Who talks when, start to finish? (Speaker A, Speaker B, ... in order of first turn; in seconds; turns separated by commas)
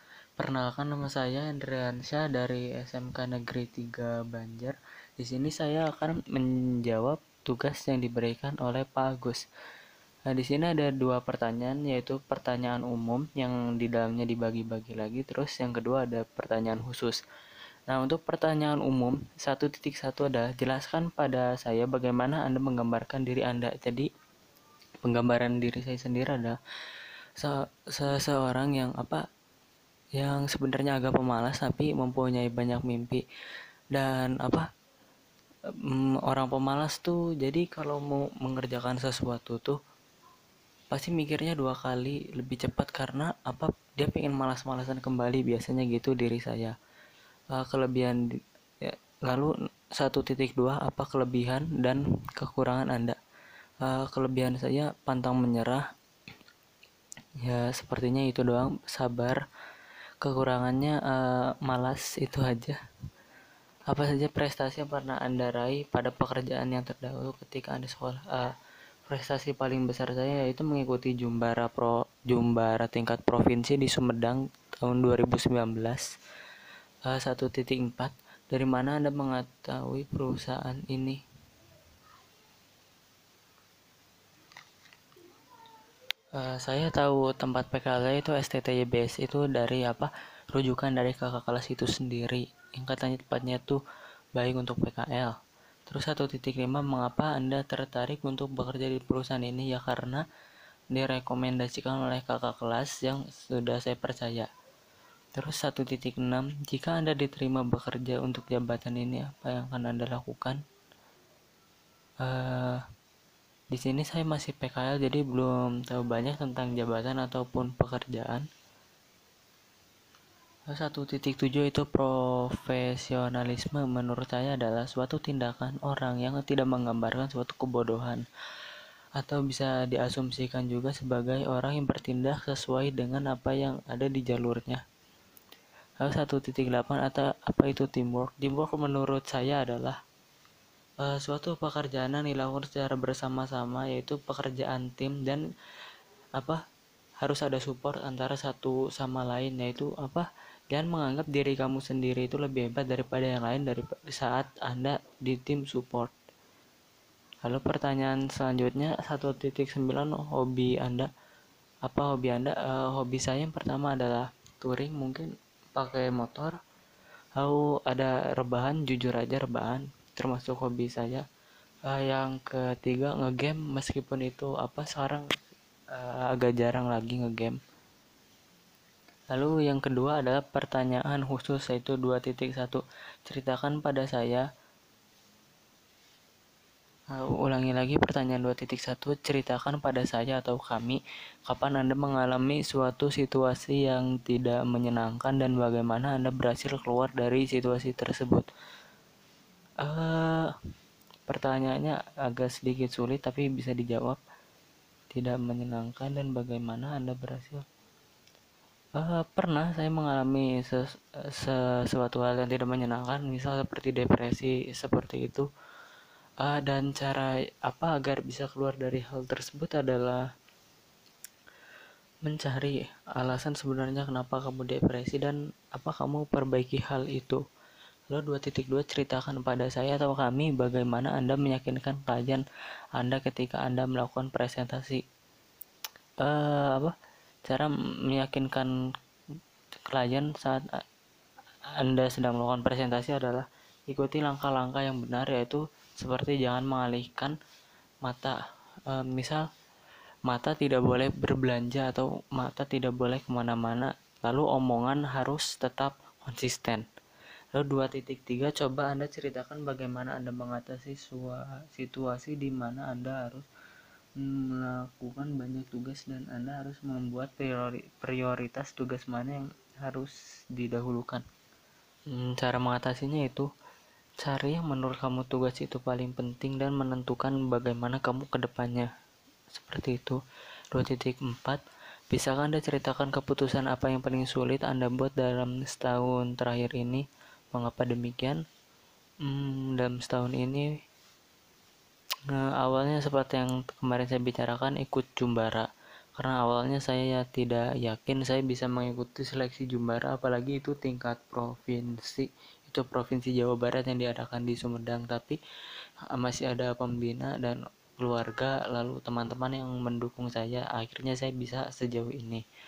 Speaker A: 0.4-9.4, Speaker A: 10.3-17.2, Speaker A: 17.9-24.1, Speaker A: 25.0-26.6, Speaker A: 27.4-29.2, Speaker A: 30.2-33.2, Speaker A: 33.9-34.6, Speaker A: 35.8-39.8, Speaker A: 40.9-46.7, Speaker A: 47.5-48.2, Speaker A: 48.9-53.2, Speaker A: 53.8-55.8, Speaker A: 57.4-59.4, Speaker A: 60.2-62.8, Speaker A: 63.9-68.5, Speaker A: 69.1-76.0, Speaker A: 77.1-81.2, Speaker A: 86.4-93.8, Speaker A: 94.3-95.3, Speaker A: 95.9-100.2, Speaker A: 100.9-104.5, Speaker A: 105.3-110.6, Speaker A: 112.2-112.8, Speaker A: 113.7-118.5, Speaker A: 120.7-128.2, Speaker A: 129.2-134.8, Speaker A: 136.0-140.0, Speaker A: 141.0-145.4, Speaker A: 147.2-156.1, Speaker A: 157.4-161.1, Speaker A: 161.8-166.5, Speaker A: 167.4-171.2, Speaker A: 171.9-175.3, Speaker A: 175.9-177.6, Speaker A: 179.3-184.4, Speaker A: 187.1-198.4, Speaker A: 199.8-200.5, Speaker A: 201.3-204.2, Speaker A: 205.1-207.6, Speaker A: 208.9-215.5, Speaker A: 216.4-220.2, Speaker A: 222.2-227.4, Speaker A: 228.1-232.4, Speaker A: 233.0-235.0, Speaker A: 236.2-236.9, Speaker A: 237.4-238.7, Speaker A: 239.9-240.7, Speaker A: 241.8-247.3, Speaker A: 248.0-248.4, Speaker A: 248.9-249.4, Speaker A: 250.3-256.8, Speaker A: 257.5-263.5, Speaker A: 264.2-271.2, Speaker A: 272.1-273.5, Speaker A: 274.2-278.9, Speaker A: 279.5-280.2, Speaker A: 280.7-287.0, Speaker A: 287.5-288.4, Speaker A: 289.2-290.7, Speaker A: 292.3-305.4, Speaker A: 306.1-312.4